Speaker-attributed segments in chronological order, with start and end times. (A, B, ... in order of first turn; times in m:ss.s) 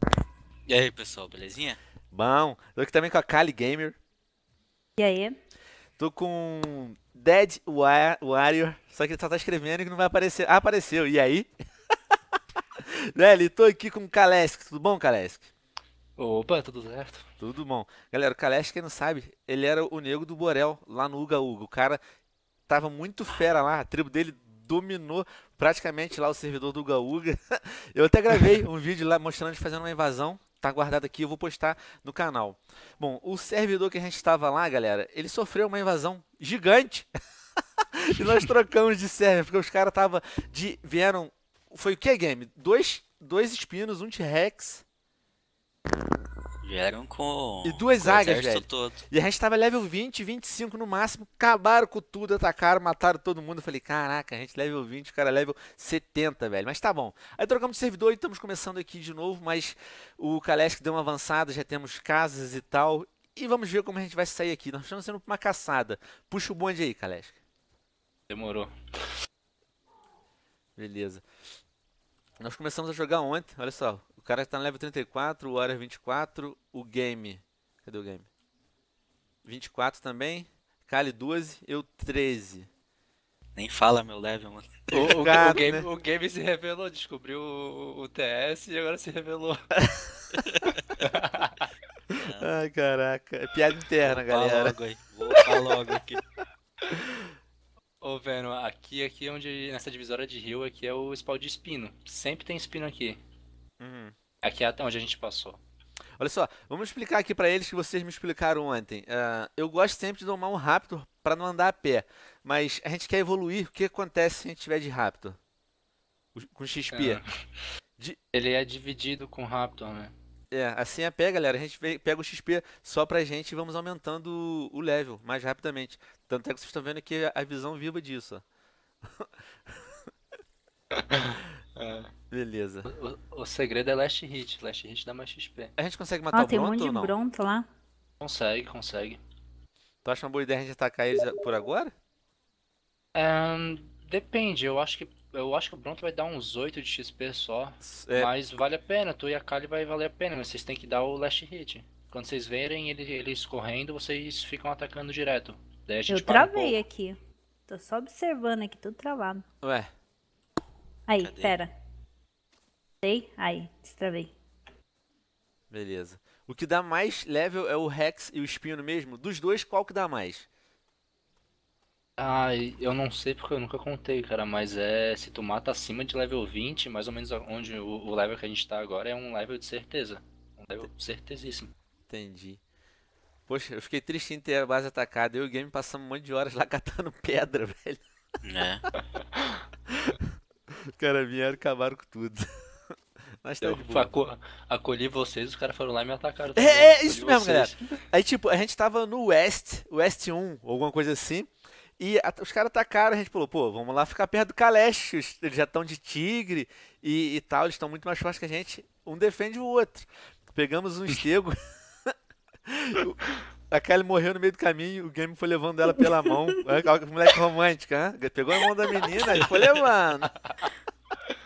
0:00.7-0:01.8 A
0:02.1-0:04.0 B
0:05.0-0:05.4 C
0:06.0-0:11.5 B
0:12.8-0:15.5 B
0:16.2-0:17.3 D
0:17.4-0:22.0 B
0:22.7-0:37.1 B
0:37.9-0:44.8 B
0:46.6-0:49.0 A
0:47.6-1:07.4 B
1:08.3-1:08.7 D
1:10.8-1:11.2 B
1:12.4-1:18.3 B
1:19.4-1:22.7 B
1:23.5-1:25.2 A
1:24.9-1:29.6 D
1:25.2-1:25.9 B
1:29.8-1:30.1 B
1:30.4-1:30.8 A
1:31.0-1:31.7 D
1:32.1-1:34.8 B
1:32.2-1:32.5 A
1:34.0-1:36.2 A
1:38.0-1:43.2 D
1:43.8-1:44.1 B
1:44.4-1:45.6 D
1:46.2-1:55.4 B
1:56.3-1:57.2 B
1:56.9-1:57.4 D
1:58.3-2:00.1 D
2:00.5-2:08.4 B
2:10.9-2:12.1 D
2:12.3-2:12.9 B
2:12.8-2:15.7 D
2:15.8-2:17.2 B
2:16.3-2:17.7 C
2:18.2-2:19.2 D
2:20.0-2:21.9 B
2:23.1-2:36.8 D
2:27.8-2:28.3 B
2:36.1-2:37.2 C
2:37.7-2:39.4 C
2:39.6-2:39.9 B
2:41.1-2:41.7 C
2:41.2-2:41.6 A
2:43.0-2:44.3 C
2:45.7-2:50.5 B
2:52.2-3:01.7 D
3:02.1-3:02.6 B
3:03.5-3:08.0 B
3:08.4-3:08.8 A
3:09.0-3:09.6 D
3:10.9-3:12.4 B
3:13.4-3:14.1 B
3:13.6-3:18.0 D
3:16.5-3:32.1 B
3:32.6-3:33.2 B
3:33.7-3:40.3 B
3:36.0-3:36.6 C